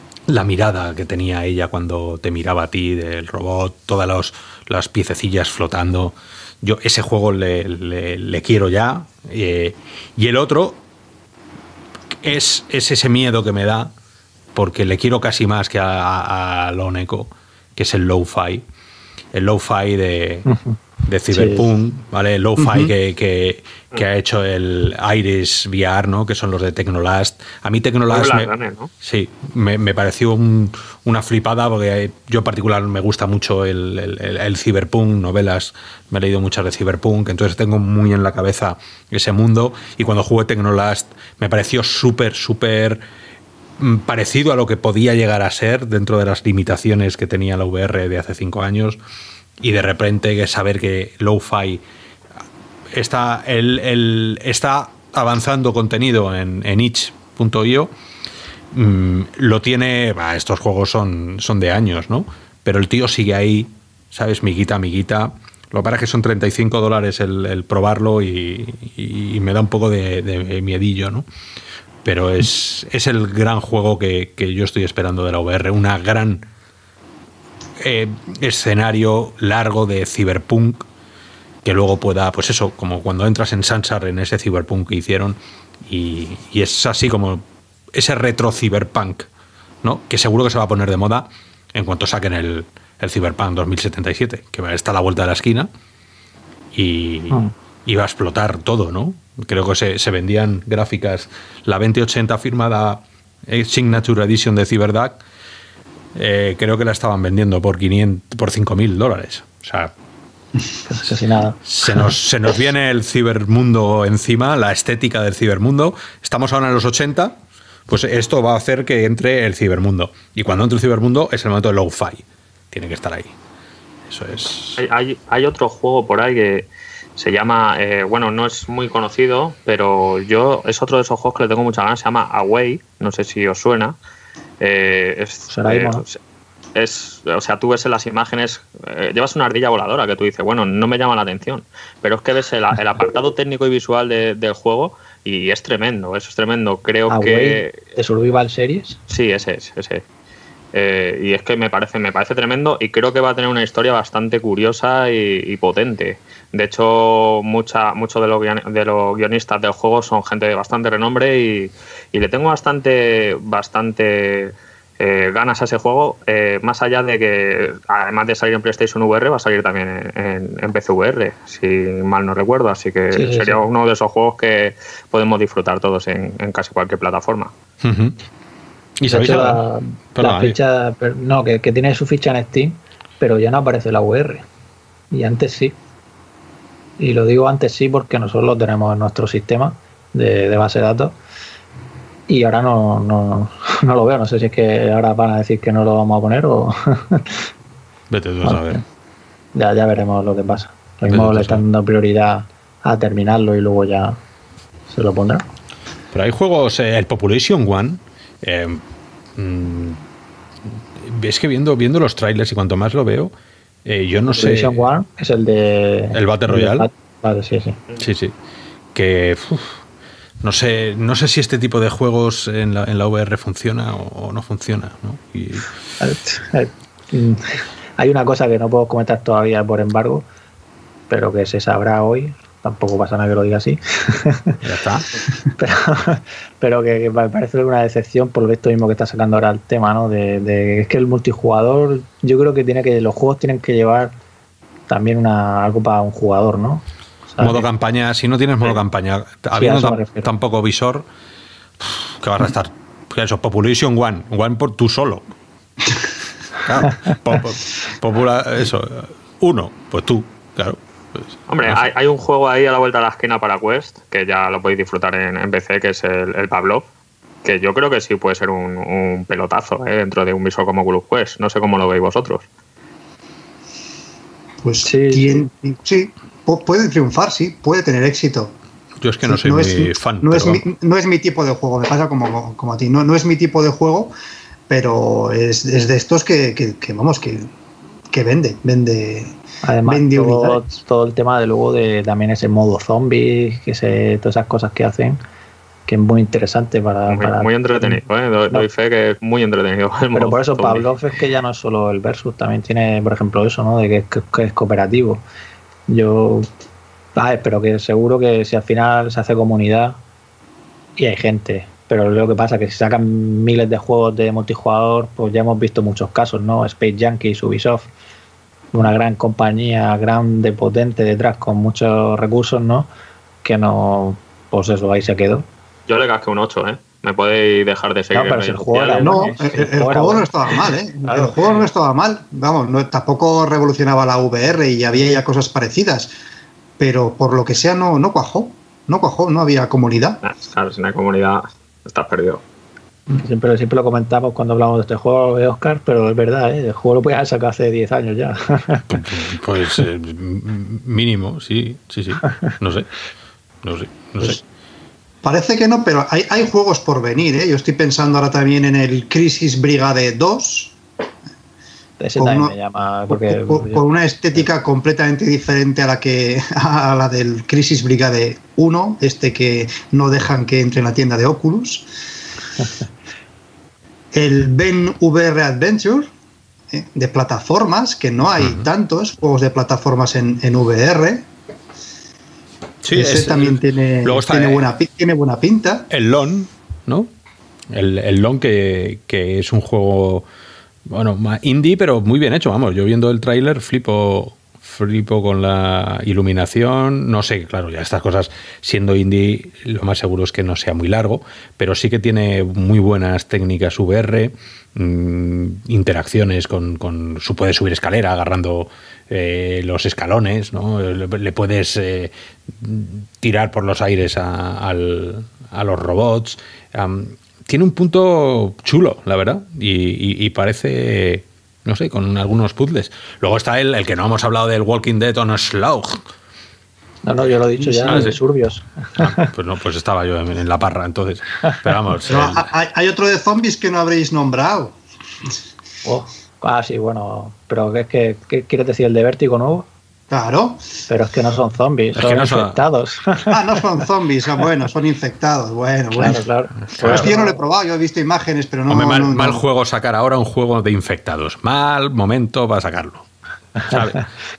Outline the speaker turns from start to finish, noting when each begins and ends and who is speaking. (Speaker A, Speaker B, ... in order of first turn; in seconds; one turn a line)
Speaker A: 0.3-10.8
Speaker A: 12.2-13.9
Speaker A: 14.5-18.6
Speaker A: 19.3-20.5
Speaker B: 20.4-20.8
Speaker A: 21.1-28.5
Speaker B: 21.3-21.7
Speaker C: 22.6-22.9
Speaker D: 28.1-28.9
Speaker A: 29.0-43.0
Speaker A: 43.8-49.0
Speaker A: 49.6-51.8
Speaker A: 52.9-57.9
Speaker A: 58.7-71.2
Speaker A: 72.0-76.5
Speaker A: 77.8-80.8
Speaker A: 81.6-89.3
Speaker A: 89.8-95.7
Speaker A: 96.7-105.2
Speaker A: 106.1-109.9
Speaker B: 110.8-111.6
Speaker A: 111.6-123.3
Speaker A: 124.1-124.8
Speaker D: 124.8-133.9
Speaker D: 134.6-136.2
Speaker B: 135.5-136.0
Speaker D: 136.7-147.8
Speaker B: 147.1-149.0
Speaker D: 149.1-150.0
Speaker D: 150.7-177.5
Speaker B: 173.1-173.6
Speaker A: 177.8-178.2
Speaker A: 179.0-179.6
Speaker B: 179.1-184.4
Speaker A: 180.1-180.6
Speaker B: 185.1-185.7
Speaker B: 187.0-191.1
Speaker B: 192.3-197.5
Speaker A: 198.1-198.8
Speaker B: 198.4-198.8
Speaker B: 199.5-204.2
Speaker A: 201.1-201.6
Speaker B: 204.9-205.4
Speaker A: 206.1-208.8
Speaker A: 209.3-210.0
Speaker A: 210.9-213.3
Speaker A: 213.8-214.8
Speaker B: 214.3-217.8
Speaker A: 216.1-216.9
Speaker A: 218.0-218.3
Speaker A: 218.9-219.8
Speaker A: 220.4-225.7
Speaker B: 226.0-230.2
Speaker B: 231.1-234.6
Speaker A: 234.6-235.1
Speaker B: 235.6-244.1
Speaker B: 244.9-247.7
Speaker A: 247.4-251.1
Speaker B: 249.5-250.3
Speaker A: 251.8-255.2
Speaker A: 256.6-261.8
Speaker D: 261.5-266.8
Speaker D: 267.4-272.4
Speaker C: 274.6-278.5
Speaker B: 274.8-275.4
Speaker A: 279.0-280.6
Speaker C: 279.2-284.1
Speaker C: 284.7-287.5
Speaker C: 288.1-290.6
Speaker B: 289.6-295.2
Speaker B: 295.9-298.7
Speaker D: 297.1-300.9
Speaker B: 300.1-305.2
Speaker B: 305.9-306.5
Speaker B: 307.1-310.0
Speaker B: 311.0-317.9
Speaker B: 318.7-322.9
Speaker B: 323.4-325.4
Speaker D: 325.9-329.3
Speaker B: 328.1-330.3
Speaker C: 329.0-336.1
Speaker B: 331.0-331.4
Speaker C: 336.8-340.2
Speaker D: 340.2-342.4
Speaker B: 343.1-348.9
Speaker A: 348.9-352.9
Speaker A: 353.6-354.4
Speaker C: 355.2-360.8
Speaker B: 362.0-363.8
Speaker C: 362.1-362.5
Speaker C: 363.1-371.9
Speaker C: 374.1-376.1
Speaker C: 376.7-381.3
Speaker A: 378.4-378.7
Speaker A: 382.8-384.7
Speaker C: 382.9-385.9
Speaker A: 385.9-387.1
Speaker A: 387.7-390.2
Speaker A: 390.9-426.0
Speaker B: 427.0-429.3
Speaker C: 427.7-428.0
Speaker A: 427.9-428.2
Speaker A: 428.9-432.5
Speaker C: 432.1-434.8
Speaker B: 435.8-439.6
Speaker C: 440.1-440.7
Speaker B: 440.9-443.6
Speaker A: 441.9-442.6
Speaker C: 443.3-446.2
Speaker B: 445.9-447.4
Speaker A: 446.8-447.1
Speaker C: 446.8-449.4
Speaker A: 448.7-453.1
Speaker A: 453.6-454.1